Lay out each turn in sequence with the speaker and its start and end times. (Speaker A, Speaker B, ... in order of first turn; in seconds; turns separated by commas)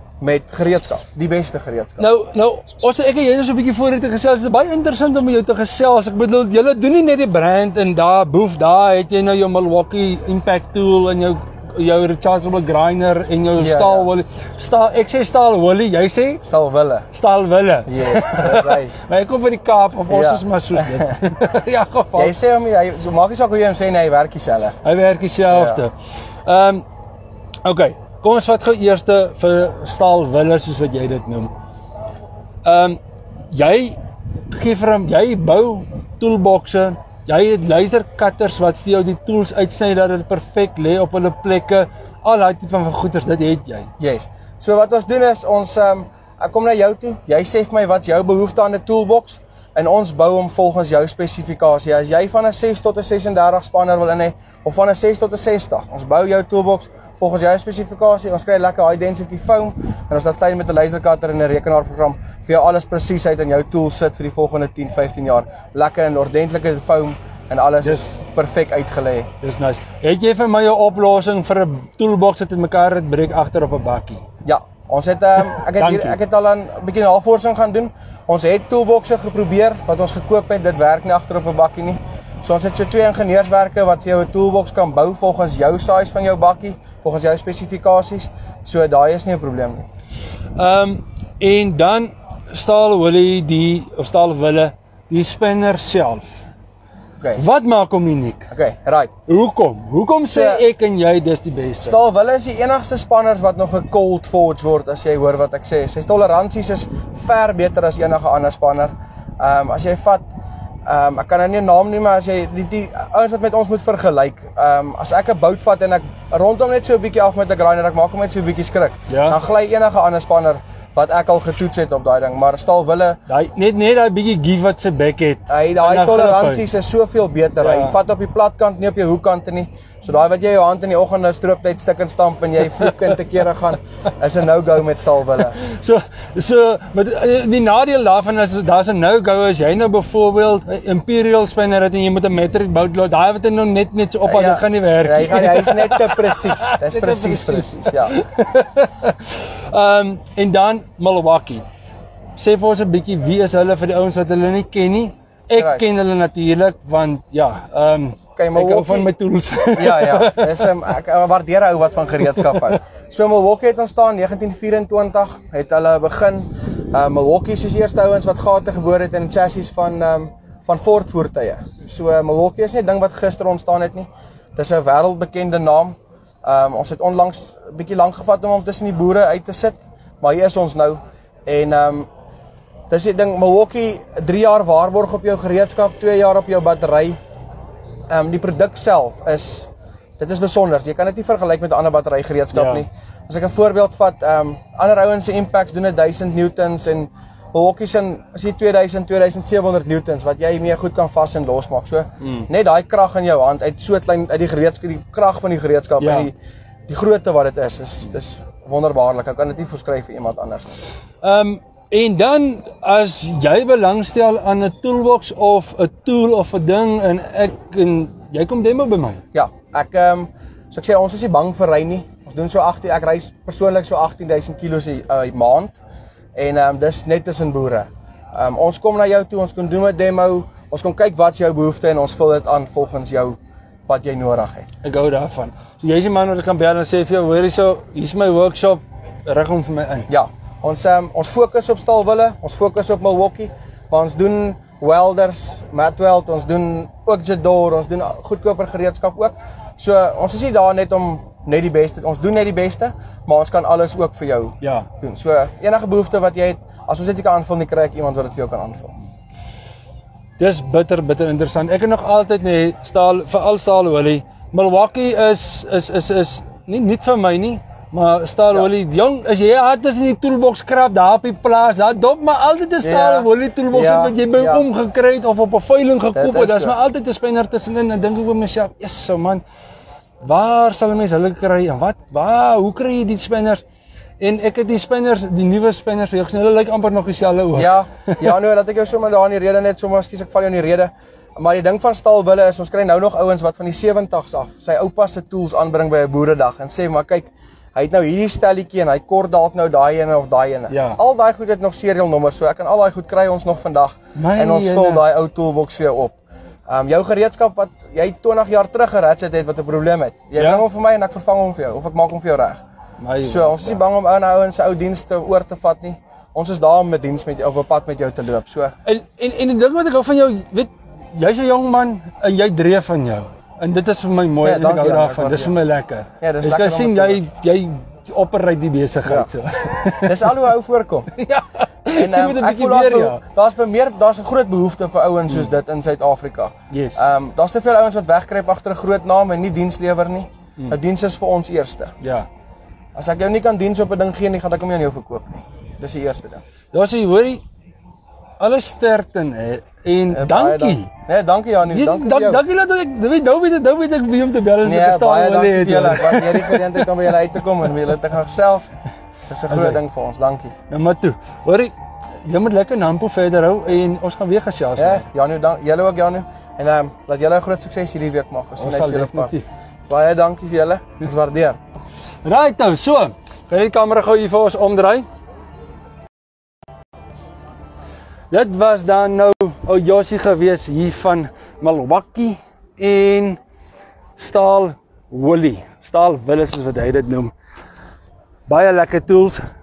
Speaker A: 0.2-2.1, Speaker B: 2.0-16.4, Speaker A: 13.6-14.1, Speaker A: 16.4-17.1, Speaker B: 17.1-22.4, Speaker A: 17.9-18.9, Speaker A: 20.1-21.2, Speaker A: 22.1-24.8, Speaker B: 24.8-25.9, Speaker A: 25.5-25.8, Speaker B: 26.4-26.8, Speaker B: 27.6-31.5, Speaker B: 32.6-33.0, Speaker B: 33.5-34.0, Speaker B: 34.5-43.9, Speaker A: 44.0-69.3, Speaker B: 67.8-68.1, Speaker B: 69.4-74.2, Speaker A: 74.4-89.8, Speaker B: 75.8-76.2, Speaker B: 90.5-96.4, Speaker B: 97.3-98.5, Speaker A: 98.5-99.1, Speaker B: 99.3-102.0, Speaker A: 100.3-100.6, Speaker A: 101.8-110.2, Speaker A: 110.8-123.2, Speaker B: 119.1-119.4, Speaker B: 123.3-126.6, Speaker A: 125.5-135.6, Speaker B: 127.6-127.9, Speaker B: 135.4-151.6, Speaker A: 144.2-148.2, Speaker B: 152.4-160.6, Speaker A: 155.5-155.8, Speaker A: 158.3-159.1, Speaker A: 159.7-182.1, Speaker A: 182.9-187.2, Speaker A: 188.1-206.3, Speaker B: 192.5-192.8, Speaker B: 206.0-206.3, Speaker A: 206.9-210.8, Speaker B: 211.2-219.2, Speaker A: 219.3-225.8, Speaker A: 226.3-234.7, Speaker B: 234.8-240.1, Speaker A: 240.1-258.9, Speaker B: 254.6-254.9, Speaker B: 260.4-279.4, Speaker A: 272.8-274.7, Speaker A: 276.1-276.8, Speaker B: 280.2-283.6, Speaker B: 284.2-288.3, Speaker A: 287.5-312.6, Speaker B: 300.7-301.0, Speaker B: 304.1-305.0, Speaker B: 310.4-310.6, Speaker B: 313.0-313.8, Speaker A: 313.2-318.7, Speaker B: 318.8-330.3, Speaker A: 324.4-325.5, Speaker A: 326.2-327.2, Speaker A: 329.0-329.3, Speaker A: 330.0-331.1, Speaker B: 331.1-333.2, Speaker A: 331.9-341.9, Speaker B: 336.7-337.0, Speaker B: 342.0-342.3, Speaker A: 342.9-346.4, Speaker B: 346.7-347.4, Speaker B: 348.4-350.9, Speaker A: 350.1-352.4, Speaker B: 351.7-356.8, Speaker A: 354.6-358.7, Speaker A: 359.3-360.5, Speaker B: 359.5-359.8, Speaker B: 360.7-361.7, Speaker B: 362.2-365.1, Speaker A: 364.8-369.3, Speaker B: 368.6-369.5, Speaker A: 369.9-371.6, Speaker B: 372.2-375.1, Speaker B: 378.3-383.4, Speaker B: 384.2-387.3, Speaker B: 388.5-389.4